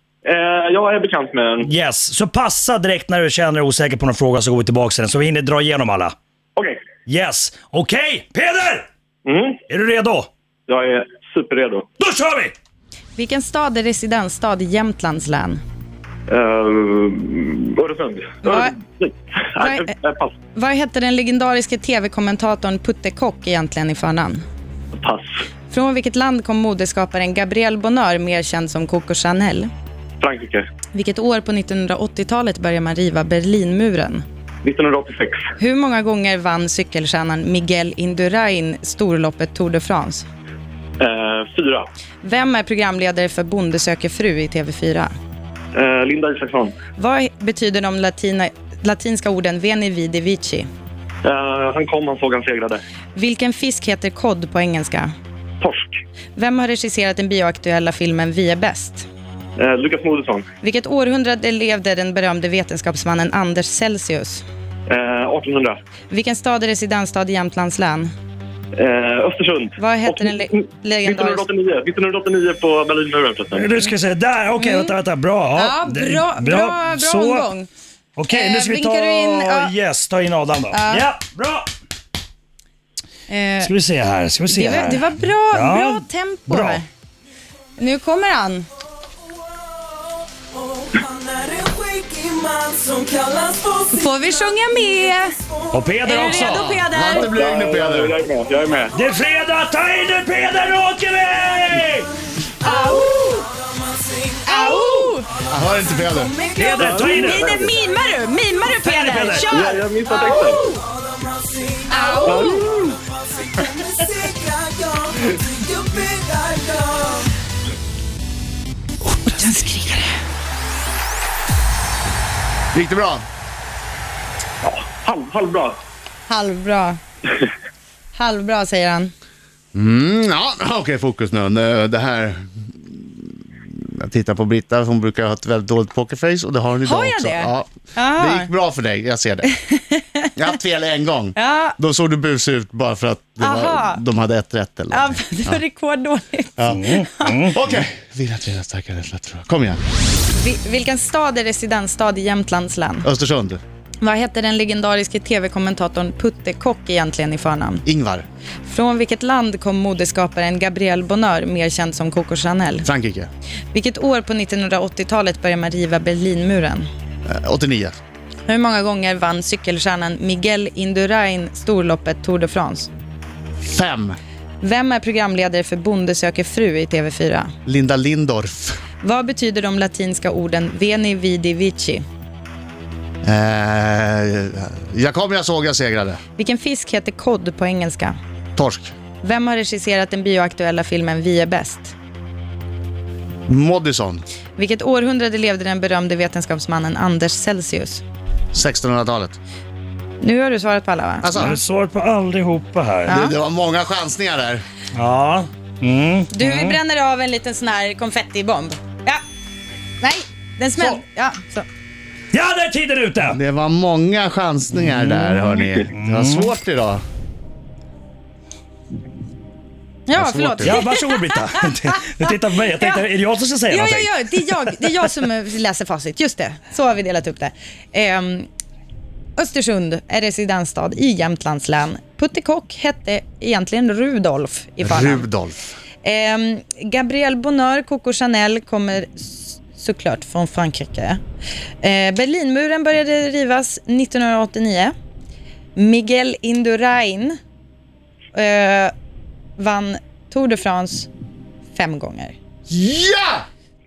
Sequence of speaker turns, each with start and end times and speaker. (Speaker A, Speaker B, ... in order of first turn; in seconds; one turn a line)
Speaker A: 0.2-1.7
Speaker B: 1.6-6.2
Speaker B: 7.1-8.9
Speaker A: 9.2-9.6
Speaker B: 9.7-10.3
Speaker A: 10.7-11.8
Speaker B: 12.0-12.6
Speaker C: 13.2-15.6
Speaker A: 16.3-20.3
Speaker C: 18.4-18.8
Speaker C: 19.6-19.9
Speaker C: 20.6-24.4
Speaker A: 25.0-25.4
Speaker C: 25.7-29.7
Speaker A: 30.2-30.7
Speaker C: 30.9-34.2
Speaker A: 34.6-35.5
Speaker C: 35.6-40.3
Speaker A: 41.0-41.9
Speaker C: 42.2-45.1
Speaker A: 45.8-46.8
Speaker C: 47.0-50.7
Speaker A: 51.2-52.8
Speaker C: 53.1-55.1
Speaker A: 55.6-56.0
Speaker C: 56.4-59.1
Speaker A: 59.6-60.5
Speaker C: 60.6-64.5
Speaker A: 64.9-65.8
Speaker C: 66.1-68.1
Speaker A: 68.8-73.7
Speaker C: 69.8-71.4
Speaker B: 73.5-77.5
Speaker C: 74.6-75.0
Speaker C: 75.5-77.7
Speaker B: 78.2-81.7
Speaker C: 78.3-79.7
Speaker C: 80.7-81.1
Speaker C: 83.3-83.7
Speaker B: 83.6-86.8
Speaker C: 84.5-86.9
Speaker C: 87.8-88.7
Speaker D: 91.9-93.4
Speaker C: 93.9-95.3
Speaker B: 95.7-96.7
Speaker C: 96.0-97.3
Speaker E: 96.2-98.2
Speaker A: 97.1-98.9
Speaker B: 98.9-102.1
Speaker C: 102.6-103.5
Speaker C: 104.4-105.3
Speaker E: 105.5-106.3
Speaker B: 106.5-107.6
Speaker C: 106.6-110.8
Speaker A: 106.8-107.7
Speaker B: 108.8-109.7
Speaker A: 109.5-110.6
Speaker C: 111.9-113.0
Speaker A: 112.2-112.8
Speaker D: 115.8-116.8
Speaker C: 119.2-120.1
Speaker E: 122.7-123.2
Speaker A: 124.6-125.8
Speaker C: 126.3-127.0
Speaker C: 128.1-129.1
Speaker E: 129.7-139.5
Speaker C: 136.8-138.5
Speaker C: 139.7-140.3
Speaker E: 140.4-145.6
Speaker C: 141.4-141.8
Speaker C: 143.4-144.0
Speaker C: 144.9-147.5
Speaker B: 146.7-147.8
Speaker E: 147.5-149.8
Speaker C: 150.4-153.1
Speaker E: 153.0-153.6
Speaker C: 154.0-157.8
Speaker E: 157.9-158.3
Speaker C: 158.7-162.8
Speaker E: 162.8-163.3
Speaker C: 163.7-166.9
Speaker E: 167.3-168.0
Speaker C: 168.5-172.9
Speaker E: 173.6-174.2
Speaker C: 174.6-177.5
Speaker E: 177.7-178.8
Speaker C: 179.0-182.0
Speaker E: 183.2-186.2
Speaker C: 186.4-188.2
Speaker E: 188.6-188.9
Speaker C: 189.2-191.9
Speaker E: 193.5-194.2
Speaker C: 194.6-198.0
Speaker E: 198.5-199.4
Speaker C: 200.2-201.3
Speaker E: 201.2-201.6
Speaker B: 201.3-203.2
Speaker C: 203.1-203.3
Speaker E: 203.1-204.6
Speaker B: 204.9-206.8
Speaker C: 206.3-209.2
Speaker C: 210.0-211.7
Speaker B: 212.3-213.4
Speaker E: 213.2-217.0
Speaker B: 214.8-216.5
Speaker C: 220.1-221.7
Speaker E: 220.2-220.8
Speaker B: 220.6-224.1
Speaker C: 222.8-223.0
Speaker C: 223.7-228.5
Speaker C: 229.4-235.3
Speaker E: 234.8-235.7
Speaker C: 236.0-241.2
Speaker C: 241.8-244.9
Speaker C: 245.8-247.4
Speaker C: 248.3-248.9
Speaker C: 249.6-251.1
Speaker C: 251.7-252.4
Speaker E: 252.7-253.5